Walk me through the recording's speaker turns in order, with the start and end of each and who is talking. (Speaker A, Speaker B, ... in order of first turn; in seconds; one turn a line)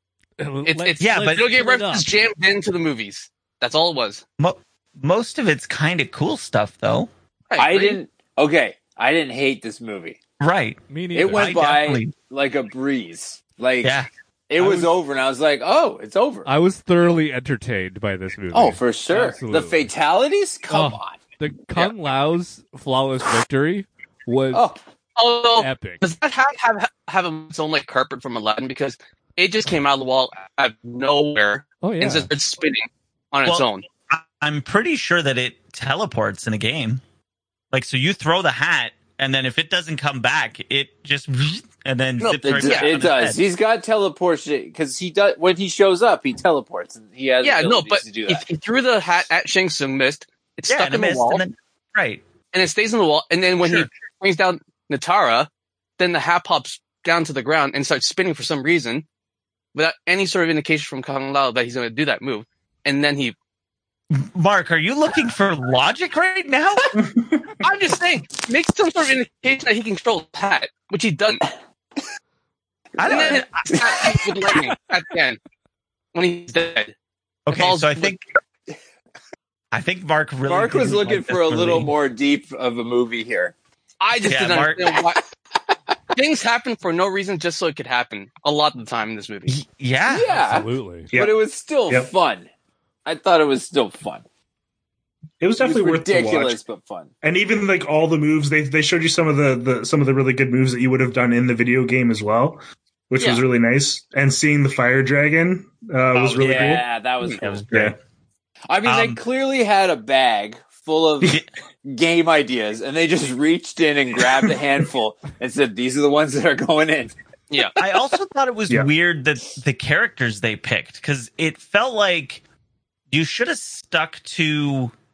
Speaker A: 0.4-2.2
Speaker B: 0.7-4.2
Speaker C: 1.0-1.4
Speaker C: 4.4-7.1
Speaker B: 7.5-8.0
Speaker D: 7.6-10.2
Speaker C: 10.4-12.2
Speaker A: 10.9-11.5
Speaker D: 11.1-14.0
Speaker C: 13.8-14.1
Speaker D: 14.5-16.5
Speaker C: 14.6-14.8
Speaker A: 16.5-19.9
Speaker D: 18.5-21.2
Speaker A: 20.7-24.6
Speaker D: 24.5-24.8
Speaker B: 25.2-33.9
Speaker A: 25.6-26.0
Speaker A: 31.8-32.3
Speaker C: 33.5-37.0
Speaker C: 37.7-43.4
Speaker B: 42.2-43.0
Speaker D: 42.4-48.5
Speaker B: 47.4-51.4
Speaker C: 50.7-52.2
Speaker B: 52.5-59.1
Speaker B: 59.8-63.4
Speaker C: 64.1-67.0
Speaker E: 67.0-67.5
Speaker B: 67.6-71.5
Speaker C: 73.0-73.8
Speaker D: 73.0-74.5
Speaker B: 73.0-75.4
Speaker B: 76.1-76.9
Speaker C: 77.5-78.2
Speaker B: 77.5-78.1
Speaker C: 79.7-81.9
Speaker D: 80.5-83.5
Speaker B: 84.0-85.2
Speaker C: 84.3-85.0
Speaker B: 86.1-89.5
Speaker C: 89.5-90.3
Speaker D: 90.1-92.5
Speaker A: 90.3-91.1
Speaker E: 91.1-92.1
Speaker D: 93.1-94.2
Speaker E: 95.4-96.6
Speaker D: 95.6-97.1
Speaker E: 97.2-106.9
Speaker D: 106.1-107.6
Speaker C: 107.4-108.0
Speaker E: 107.7-108.0
Speaker D: 108.7-117.1
Speaker C: 108.8-109.2
Speaker B: 117.5-117.8
Speaker C: 117.8-122.4
Speaker C: 123.1-124.9